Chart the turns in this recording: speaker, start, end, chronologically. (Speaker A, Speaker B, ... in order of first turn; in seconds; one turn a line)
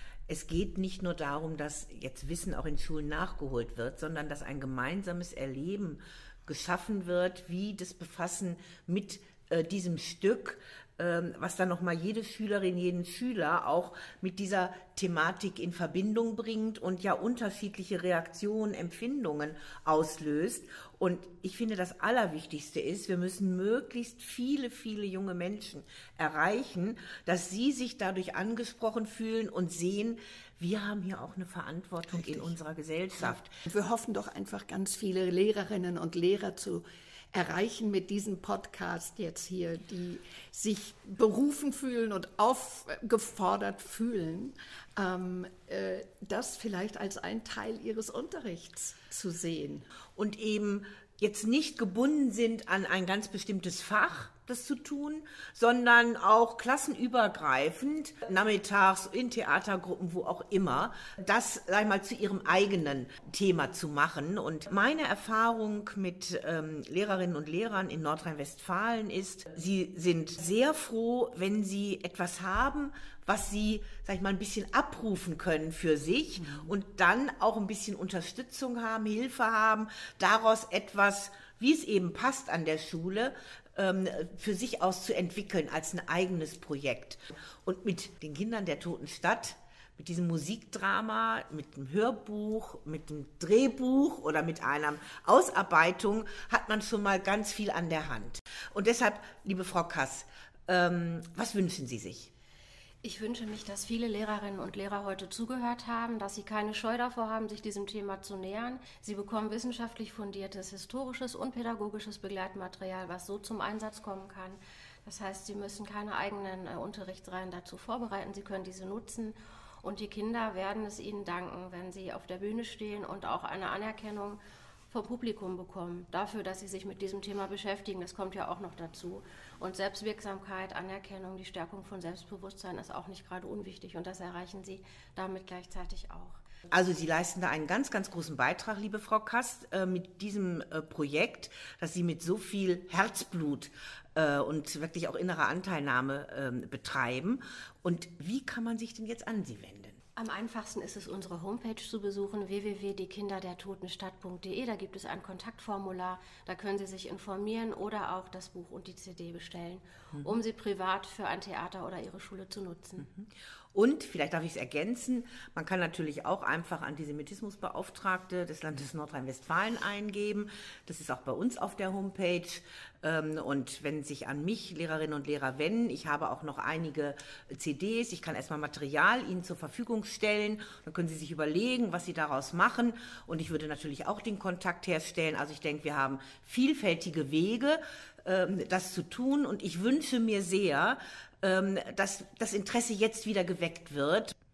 Speaker A: 0.3-33.5
Speaker B: 32.1-32.5
Speaker B: 33.2-49.8
Speaker A: 50.2-102.3
Speaker B: 76.4-76.7
Speaker C: 103.0-124.4
Speaker C: 124.9-136.4
Speaker A: 136.7-150.0
Speaker C: 150.2-163.1
Speaker A: 163.1-194.3